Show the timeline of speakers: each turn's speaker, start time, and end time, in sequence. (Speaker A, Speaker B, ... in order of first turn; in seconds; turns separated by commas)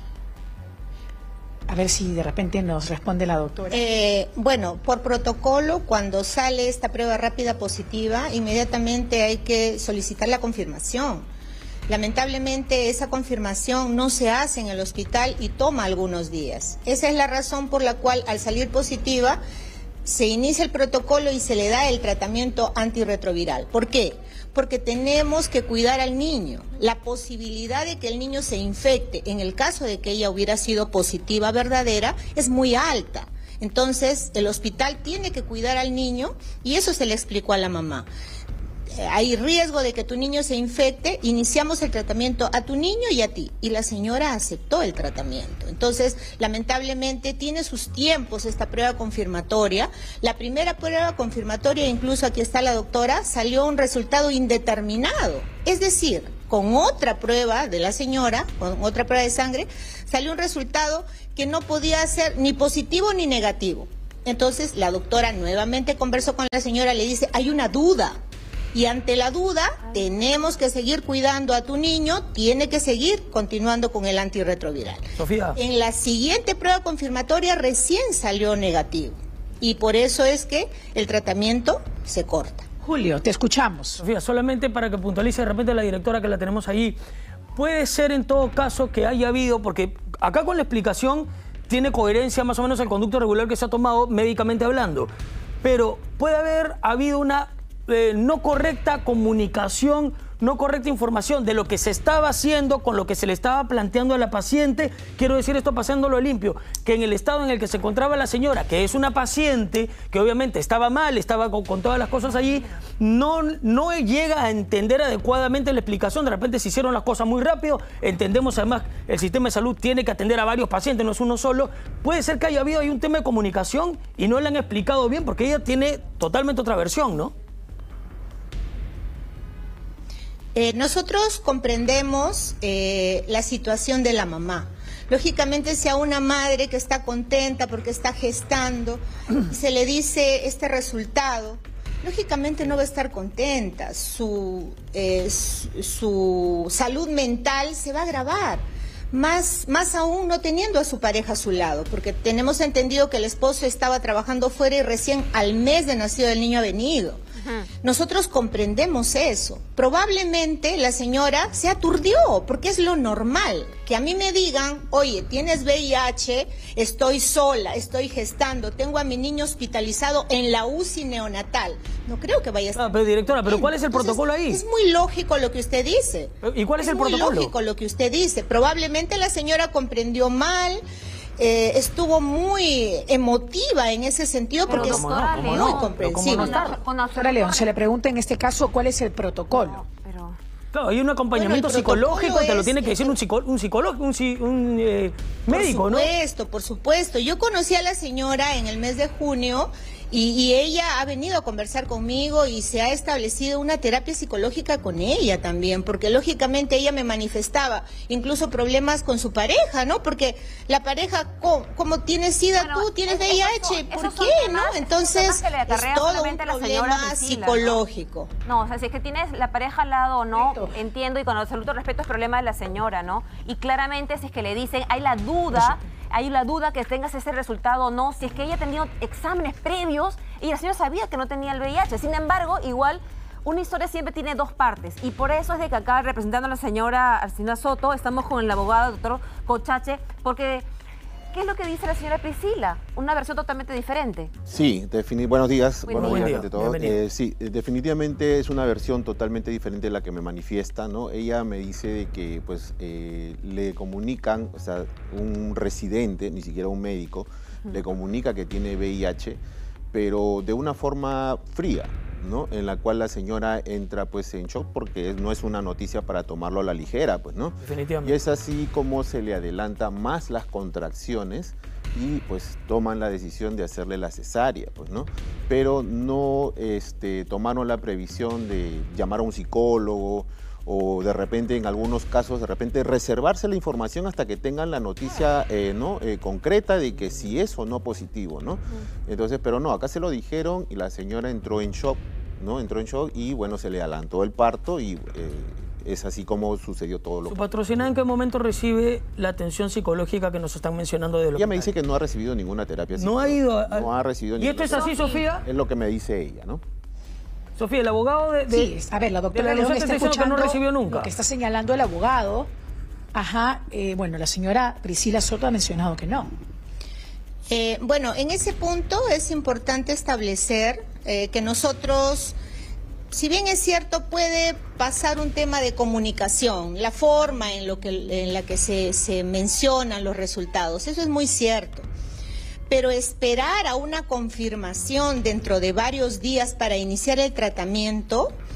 Speaker A: 1.7-3.8, Speaker B: 3.7-11.3, Speaker B: 11.9-19.4, Speaker B: 20.1-38.1, Speaker B: 38.9-68.2, Speaker B: 68.7-82.7, Speaker C: 75.2-75.6, Speaker A: 82.8-84.0, Speaker C: 84.0-87.0, Speaker C: 87.6-95.1, Speaker C: 95.6-127.3, Speaker B: 130.6-157.2, Speaker D: 157.4-157.7, Speaker B: 157.8-172.9, Speaker C: 172.8-174.6, Speaker B: 173.4-180.8, Speaker C: 176.4-177.5, Speaker B: 181.4-186.6, Speaker D: 184.7-187.8, Speaker C: 184.7-186.8, Speaker A: 187.1-189.8, Speaker D: 189.5-190.4, Speaker C: 190.7-196.1, Speaker B: 191.3-193.1, Speaker B: 195.5-218.3, Speaker D: 212.6-217.8, Speaker D: 218.4-240.7, Speaker A: 220.3-220.7, Speaker D: 241.3-244.3, Speaker E: 244.5-259.4, Speaker D: 245.9-246.4, Speaker C: 245.9-247.1, Speaker E: 259.9-297.4, Speaker C: 267.6-268.2, Speaker C: 297.2-301.8, Speaker E: 301.4-304.8, Speaker C: 302.9-305.4, Speaker D: 304.7-305.3, Speaker E: 305.4-306.6, Speaker C: 307.6-308.7, Speaker A: 308.5-312.5, Speaker C: 309.3-311.1, Speaker A: 313.1-316.3, Speaker B: 317.5-322.4, Speaker B: 323.1-331.9, Speaker B: 332.7-338.4